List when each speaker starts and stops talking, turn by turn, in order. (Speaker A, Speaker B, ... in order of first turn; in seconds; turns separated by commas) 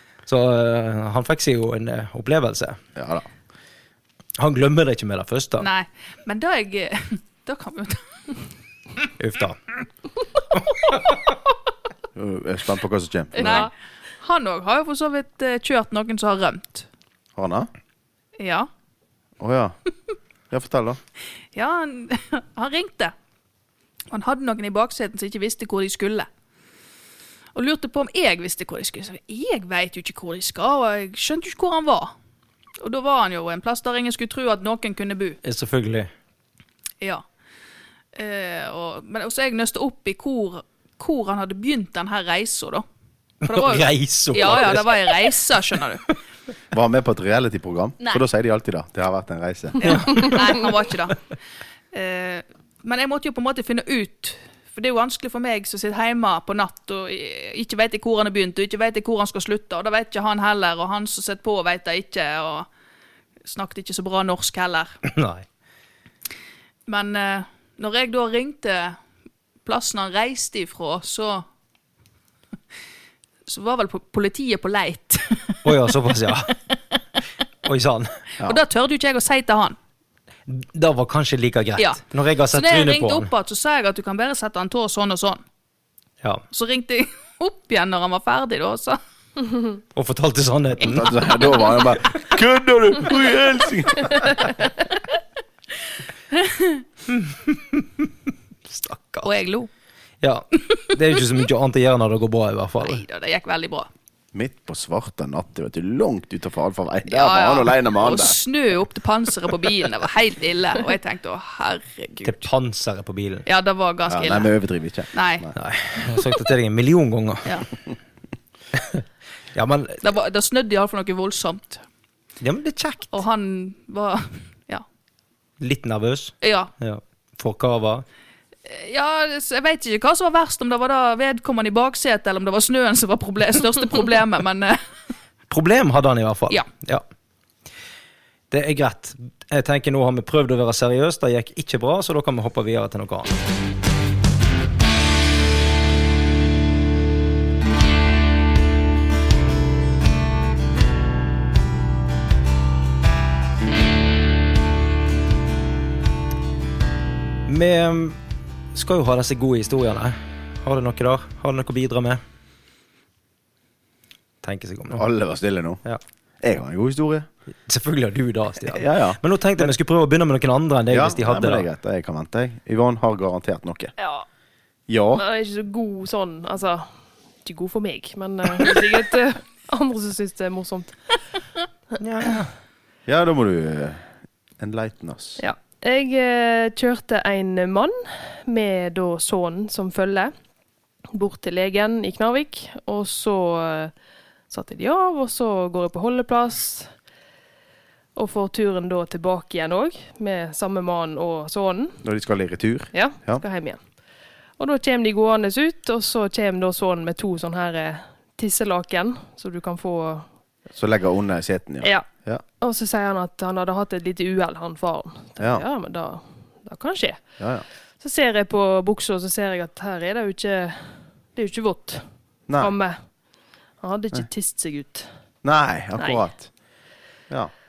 Speaker A: 0.3-2.8, Speaker B: 3.0-3.2, Speaker A: 4.4-5.7, Speaker C: 5.6-8.1, Speaker A: 9.2-9.6, Speaker A: 10.6-11.0, Speaker B: 12.1-13.7, Speaker D: 13.3-13.7, Speaker C: 13.4-16.9, Speaker B: 17.4-17.7, Speaker C: 18.4-18.7, Speaker B: 19.4-19.7, Speaker B: 20.5-21.0, Speaker C: 21.5-23.1, Speaker C: 24.1-26.3, Speaker C: 27.5-32.1, Speaker C: 32.8-35.4, Speaker A: 35.4-36.1, Speaker C: 38.1-42.8, Speaker C: 43.4-46.0, Speaker A: 43.4-45.3, Speaker B: 46.7-50.1, Speaker A: 49.8-50.4, Speaker C: 49.8-51.2, Speaker C: 51.9-62.7, Speaker C: 63.4-65.0, Speaker A: 65.0-65.5, Speaker C: 66.9-69.0, Speaker C: 69.7-71.4, Speaker C: 73.5-75.6, Speaker A: 75.6-76.5, Speaker A: 77.6-78.2, Speaker C: 78.4-79.8, Speaker A: 80.5-83.3, Speaker C: 82.5-85.4, Speaker C: 86.5-89.0, Speaker A: 89.9-91.1, Speaker B: 90.8-94.5, Speaker C: 96.3-96.8, Speaker A: 97.1-98.1, Speaker A: 98.7-99.3, Speaker C: 99.2-99.7, Speaker A: 100.2-103.0, Speaker C: 102.8-103.9, Speaker B: 104.3-108.4, Speaker C: 107.1-112.4, Speaker A: 112.2-113.4, Speaker C: 113.5-114.5, Speaker B: 114.1-115.5, Speaker C: 115.1-115.5, Speaker A: 115.5-117.6, Speaker A: 118.8-119.0, Speaker A: 119.5-120.0, Speaker C: 120.0-121.8, Speaker A: 122.4-123.1, Speaker C: 123.1-124.8, Speaker A: 125.6-128.0, Speaker C: 126.4-126.7, Speaker C: 128.7-134.8, Speaker A: 135.5-137.0, Speaker A: 138.5-143.4, Speaker A: 157.5-158.2, Speaker A: 158.7-162.2, Speaker A: 164.4-165.0, Speaker B: 164.9-165.8, Speaker B: 166.4-167.3, Speaker A: 167.7-171.7, Speaker B: 168.7-169.2, Speaker B: 170.9-173.9, Speaker B: 174.9-175.2, Speaker D: 175.1-176.8, Speaker D: 177.4-181.0, Speaker A: 182.0-182.5, Speaker B: 183.1-184.0, Speaker B: 184.6-185.4, Speaker D: 185.4-190.3, Speaker D: 191.1-193.9, Speaker D: 194.5-196.9, Speaker D: 198.2-202.0, Speaker B: 202.0-203.4, Speaker D: 202.9-203.8, Speaker D: 204.6-210.2, Speaker B: 210.7-212.4, Speaker D: 211.8-212.1, Speaker D: 212.6-217.2, Speaker B: 215.4-215.6, Speaker D: 218.0-222.0, Speaker B: 222.5-222.7, Speaker D: 222.6-222.9, Speaker D: 223.8-225.1, Speaker B: 225.4-226.5, Speaker D: 226.0-226.2